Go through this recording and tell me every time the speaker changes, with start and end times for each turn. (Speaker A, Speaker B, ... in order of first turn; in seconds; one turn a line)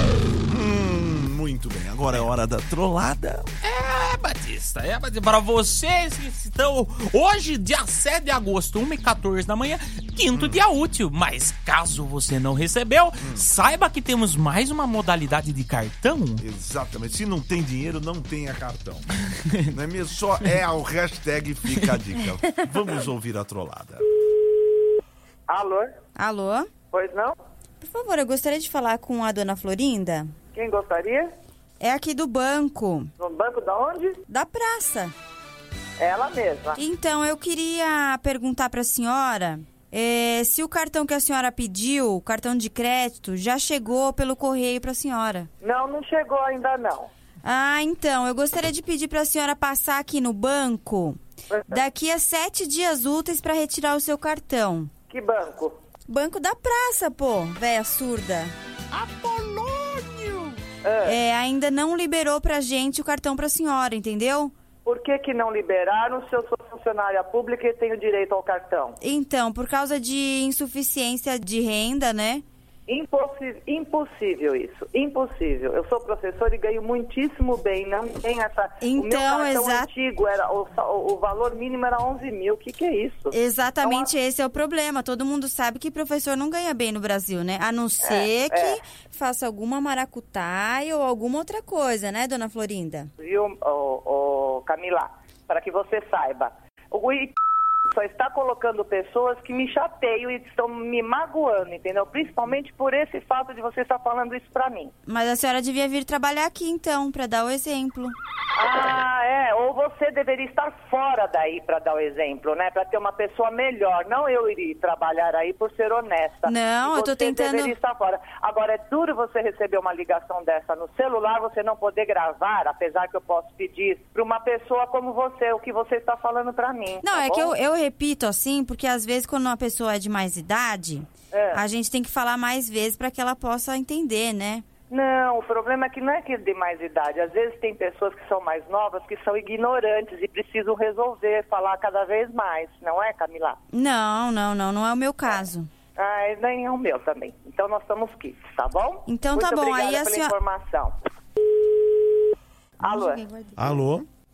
Speaker A: 0.5-3.5
Speaker B: 3.6-16.4
Speaker A: 10.3-10.6
Speaker A: 13.2-13.5
Speaker A: 16.4-19.1
Speaker A: 19.7-24.0
Speaker C: 25.5-25.9
Speaker D: 26.1-26.7
Speaker C: 26.9-27.3
Speaker D: 27.8-30.3
Speaker C: 30.5-31.3
Speaker D: 31.8-33.1
Speaker C: 33.2-34.2
Speaker D: 34.3-35.1
Speaker C: 36.0-36.8
Speaker D: 36.8-45.5
Speaker C: 45.6-47.1
Speaker D: 47.4-54.9
Speaker C: 51.5-51.8
Speaker C: 55.1-55.8
Speaker D: 56.1-58.5
Speaker B: 58.9-60.6
Speaker C: 60.8-61.2
Speaker D: 61.0-64.5
Speaker C: 64.8-69.0
Speaker D: 69.0-72.4
Speaker C: 72.9-84.1
Speaker D: 78.8-79.9
Speaker D: 83.3-93.1
Speaker C: 88.0-88.8
Speaker C: 93.2-97.3
Speaker C: 97.9-104.9
Speaker D: 105.1-108.1
Speaker C: 108.5-127.5
Speaker D: 116.5-117.7
Speaker D: 127.0-134.6
Speaker C: 131.3-131.6
Speaker C: 134.9-143.6
Speaker D: 143.7-145.7
Speaker C: 145.9-150.9
Speaker D: 149.1-150.3
Speaker C: 152.8-153.2
Speaker D: 152.8-153.8
Speaker A: 153.6-154.1